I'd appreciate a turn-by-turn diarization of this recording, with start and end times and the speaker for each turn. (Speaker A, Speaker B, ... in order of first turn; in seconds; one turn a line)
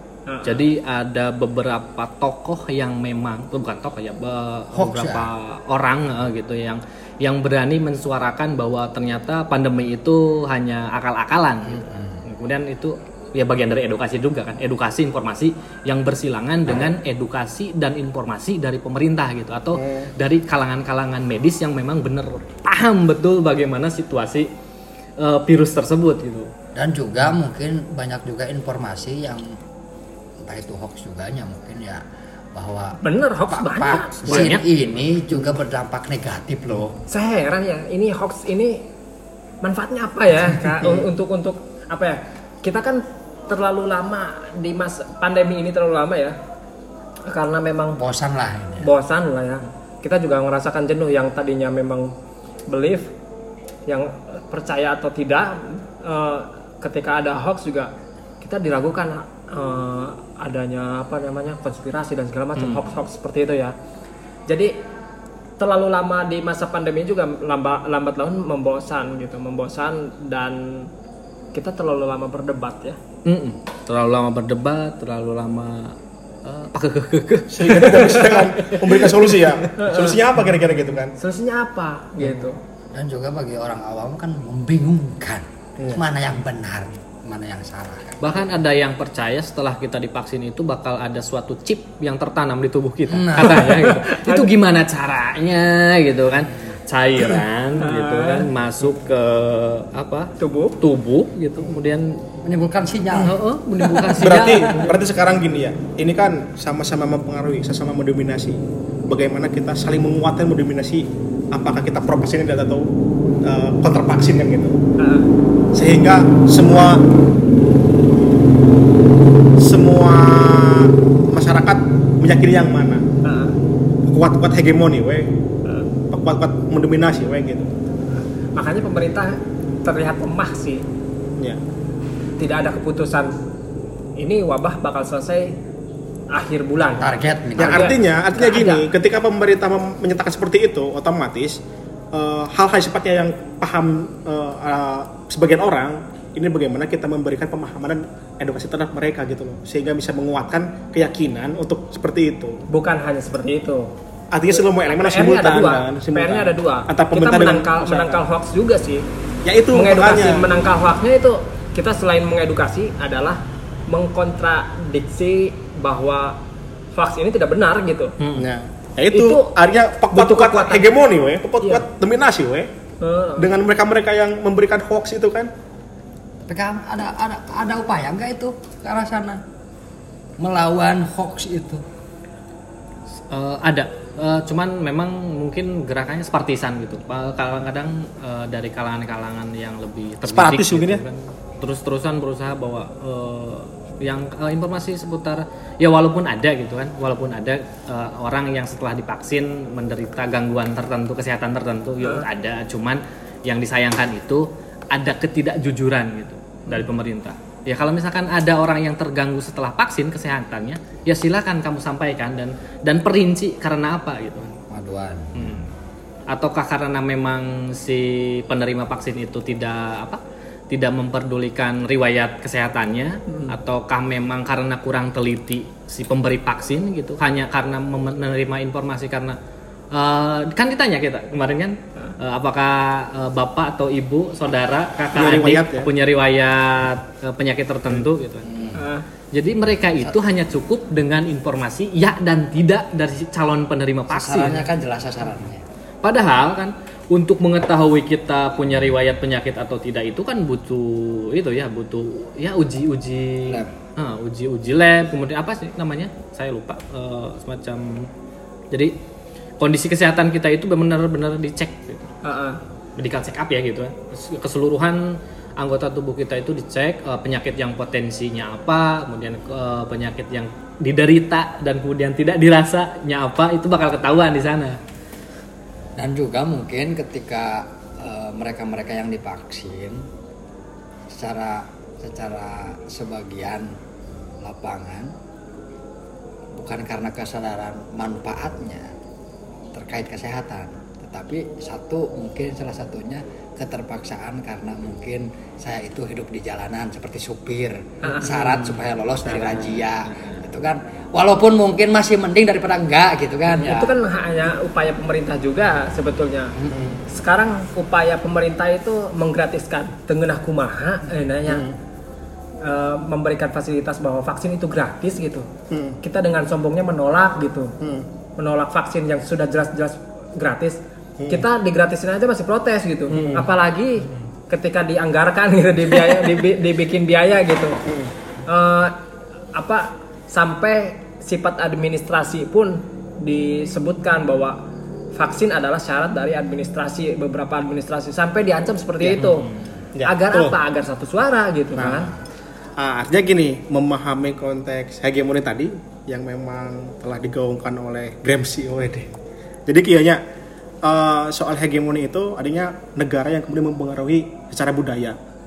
Speaker A: 0.3-0.7
Speaker B: 0.4-24.5
Speaker C: 4.7-5.3
Speaker C: 11.7-12.2
Speaker D: 19.8-20.1
Speaker B: 25.2-26.5
Speaker C: 26.8-29.6
Speaker C: 30.4-32.0
Speaker C: 32.5-37.0
Speaker A: 33.0-34.5
Speaker B: 34.2-34.6
Speaker A: 37.1-38.9
Speaker A: 39.6-46.4
Speaker A: 47.3-48.0
Speaker C: 48.0-48.9
Speaker A: 48.8-52.1
Speaker A: 52.7-53.1
Speaker A: 53.9-63.8
Speaker B: 62.6-62.9
Speaker A: 64.5-64.7
Speaker A: 65.6-70.9
Speaker A: 71.5-73.0
Speaker B: 73.2-79.0
Speaker D: 77.5-81.1
Speaker A: 79.8-80.2
Speaker A: 81.1-82.6
Speaker C: 82.9-88.5
Speaker B: 88.2-102.2
Speaker C: 93.1-93.8
Speaker A: 93.6-94.5
Speaker A: 97.8-98.5
Speaker A: 100.4-100.8
Speaker C: 102.4-104.3
Speaker B: 103.1-105.0
Speaker D: 104.2-112.9
Speaker D: 113.4-114.8
Speaker A: 115.0-115.3
Speaker D: 115.7-117.1
Speaker D: 119.6-123.1
Speaker A: 123.2-123.6
Speaker D: 124.1-125.3
Speaker D: 126.1-127.8
Speaker A: 128.6-130.8
Speaker A: 132.4-133.3
Speaker A: 134.2-135.6
Speaker A: 136.3-138.9
Speaker C: 137.0-137.9
Speaker D: 137.6-141.6
Speaker D: 142.1-152.7
Speaker A: 152.7-153.9
Speaker D: 154.3-158.2
Speaker A: 154.9-159.1
Speaker D: 159.4-160.5
Speaker A: 159.7-166.4
Speaker A: 166.9-168.1
Speaker B: 168.2-168.5
Speaker D: 168.4-172.7
Speaker A: 169.1-169.5
Speaker A: 170.1-170.9
Speaker A: 173.0-173.6
Speaker D: 173.4-175.5
Speaker C: 176.4-179.4
Speaker C: 180.4-181.8
Speaker B: 183.3-214.5
Speaker D: 190.3-191.0
Speaker C: 214.7-215.6
Speaker B: 215.3-215.7
Speaker B: 216.3-229.4
Speaker A: 223.3-223.5
Speaker B: 229.9-238.5
Speaker D: 235.1-235.9
Speaker C: 238.4-238.8
Speaker A: 238.8-239.1
Speaker B: 239.3-244.7
Speaker C: 244.1-245.6
Speaker B: 246.0-258.1
Speaker B: 259.6-262.1
Speaker A: 262.2-262.6
Speaker B: 263.0-274.8
Speaker C: 276.0-280.1
Speaker C: 281.1-283.8
Speaker C: 284.4-285.1
Speaker C: 286.6-288.9
Speaker C: 289.7-303.9
Speaker A: 298.0-298.3
Speaker B: 298.3-298.8
Speaker A: 303.6-306.5
Speaker C: 306.6-306.9
Speaker D: 306.7-307.0
Speaker A: 307.1-311.6
Speaker D: 311.5-311.8
Speaker A: 312.6-315.5
Speaker D: 315.7-316.0
Speaker A: 316.0-317.7
Speaker D: 317.8-318.1
Speaker A: 318.4-327.8
Speaker D: 323.1-323.5
Speaker A: 328.5-329.0
Speaker A: 329.5-334.6
Speaker A: 335.1-339.5
Speaker B: 339.2-339.6
Speaker D: 340.0-340.6
Speaker A: 340.0-342.1
Speaker D: 341.8-342.2
Speaker D: 342.8-349.1
Speaker D: 349.7-350.2
Speaker D: 350.8-355.2